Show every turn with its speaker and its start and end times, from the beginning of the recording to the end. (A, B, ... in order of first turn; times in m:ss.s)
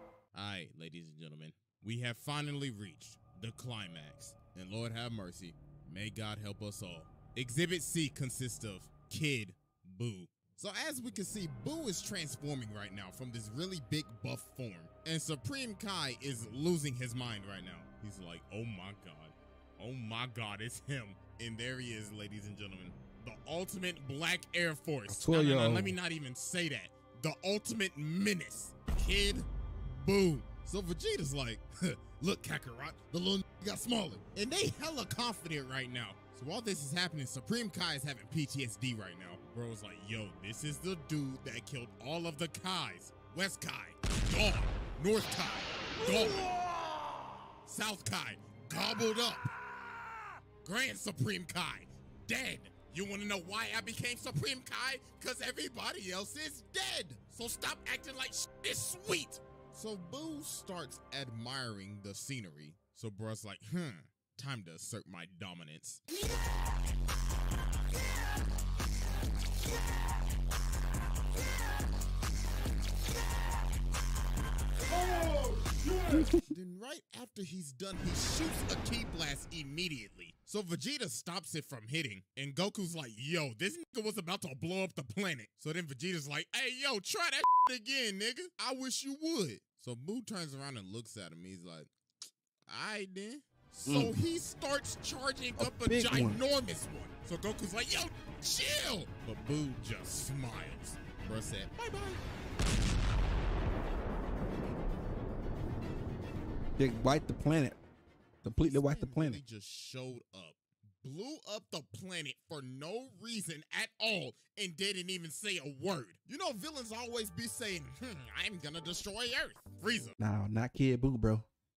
0:00.3-0:46.6 A
0:25.1-0:26.0 B
0:47.7-0:49.5 A
0:50.6-1:06.0 A
1:16.1-1:16.4 B
1:16.3-1:31.9 A
1:32.7-1:42.2 A
1:33.9-1:34.1 B
1:35.6-1:36.4 B
1:46.8-1:47.8 B
1:48.4-1:49.4 B
1:48.5-2:00.2 A
2:00.2-2:01.5 B